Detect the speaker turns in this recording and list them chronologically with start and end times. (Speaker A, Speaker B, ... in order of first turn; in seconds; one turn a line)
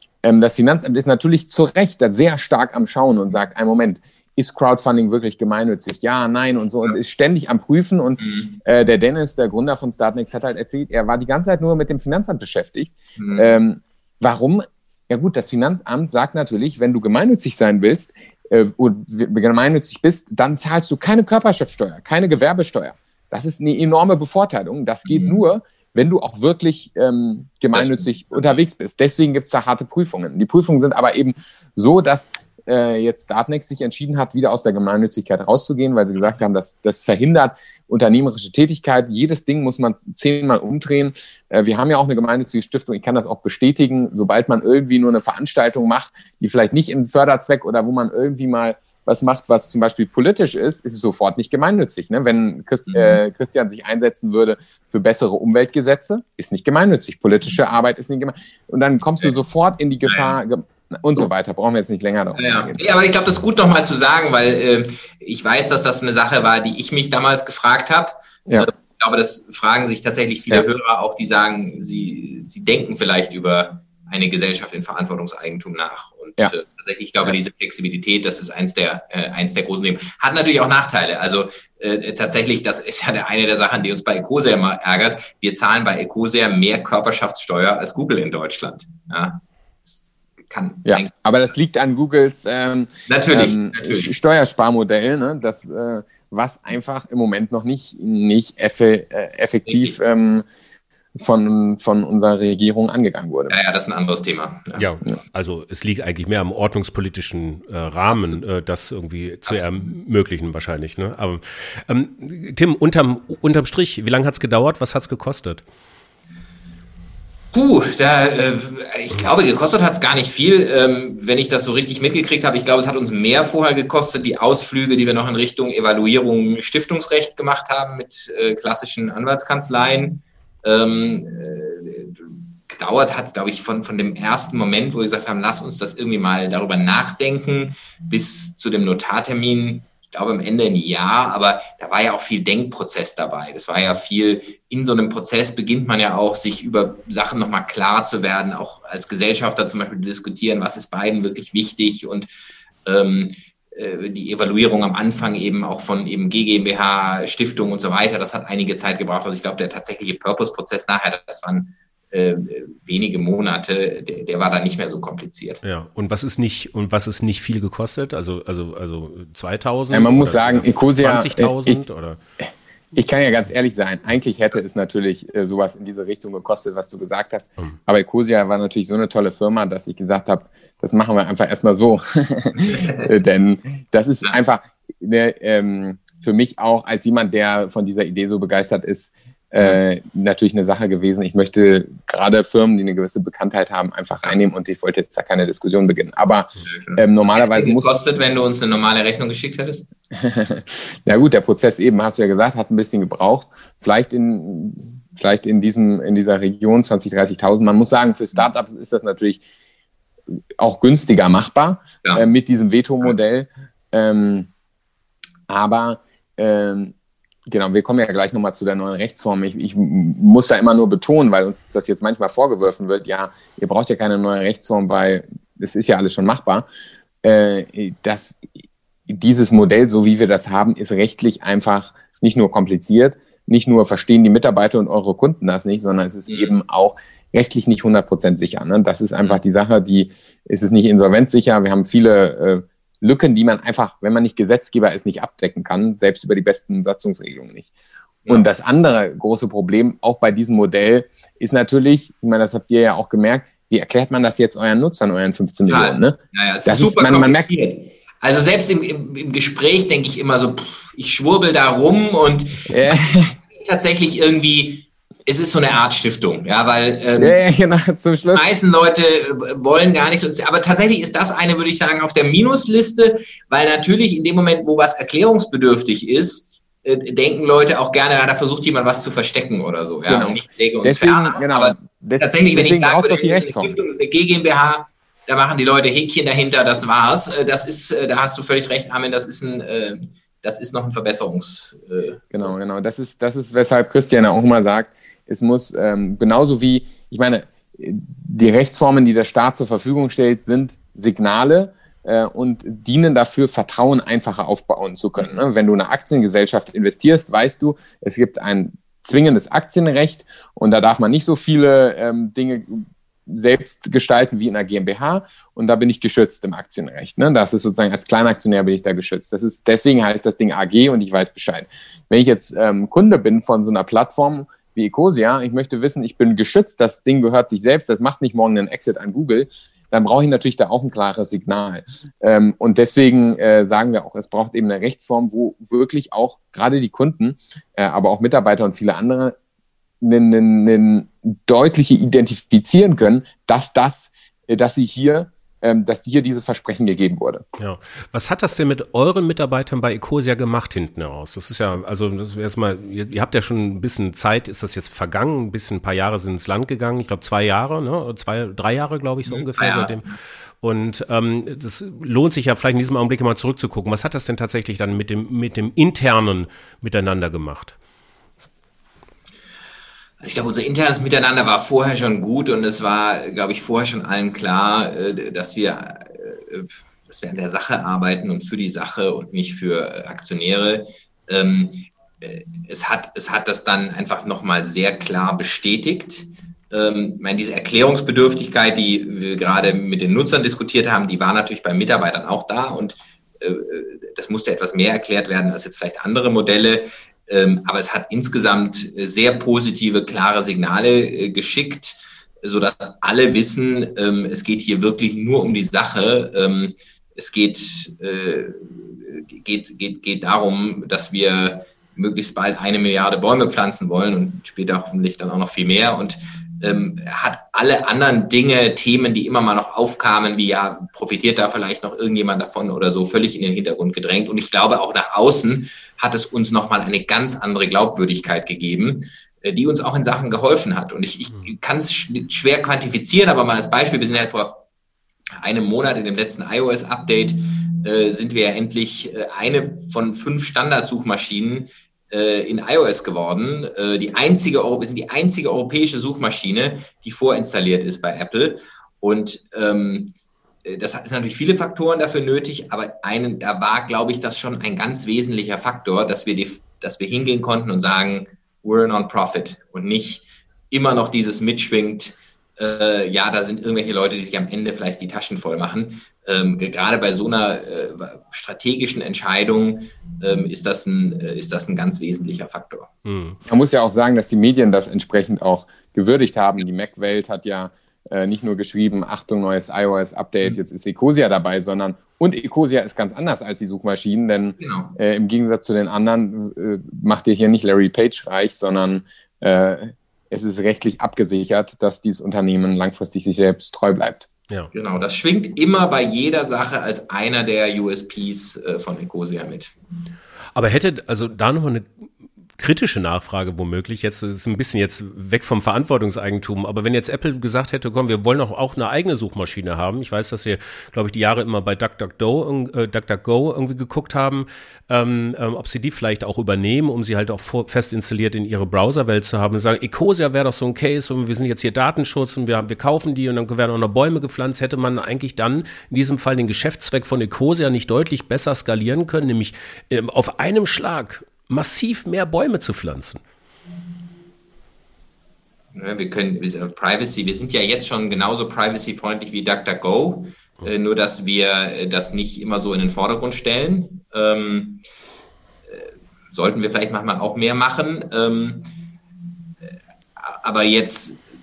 Speaker A: 0.2-62.8
Speaker B: 8.2-8.6
Speaker B: 13.2-13.5
Speaker B: 25.1-25.4
Speaker B: 27.7-28.6
Speaker B: 52.9-53.2
Speaker B: 60.0-60.4
Speaker B: 62.4-91.1
Speaker A: 90.8-100.5
Speaker B: 93.1-94.1
Speaker B: 99.7-100.0
Speaker A: 101.2-103.5
Speaker B: 103.5-104.9
Speaker C: 104.7-115.6
Speaker B: 109.5-109.9
Speaker B: 117.5-152.3
Speaker B: 152.8-165.6
Speaker C: 165.6-172.2
Speaker A: 169.9-171.8
Speaker A: 172.9-197.9
Speaker B: 182.6-183.0
Speaker B: 196.7-199.9
Speaker A: 200.1-209.4
Speaker A: 210.6-214.5
Speaker A: 215.5-216.9
Speaker A: 217.4-226.7
Speaker A: 227.2-247.7
Speaker B: 236.3-236.6
Speaker A: 248.3-257.5
Speaker B: 255.7-267.4
Speaker A: 262.7-263.4
Speaker A: 267.2-268.5
Speaker B: 268.3-292.5
Speaker A: 280.1-283.7
Speaker A: 292.3-339.4
Speaker A: 340.0-347.4
Speaker C: 347.6-360.0
Speaker B: 359.2-360.1
Speaker C: 360.6-367.8
Speaker B: 370.2-434.6
Speaker B: 435.4-472.9
Speaker C: 473.1-473.4
Speaker A: 473.5-494.3
Speaker B: 484.6-484.9
Speaker B: 494.7-499.8
Speaker C: 500.5-501.9
Speaker C: 502.6-533.2
Speaker B: 535.7-544.8
Speaker B: 545.7-548.7
Speaker B: 550.2-551.2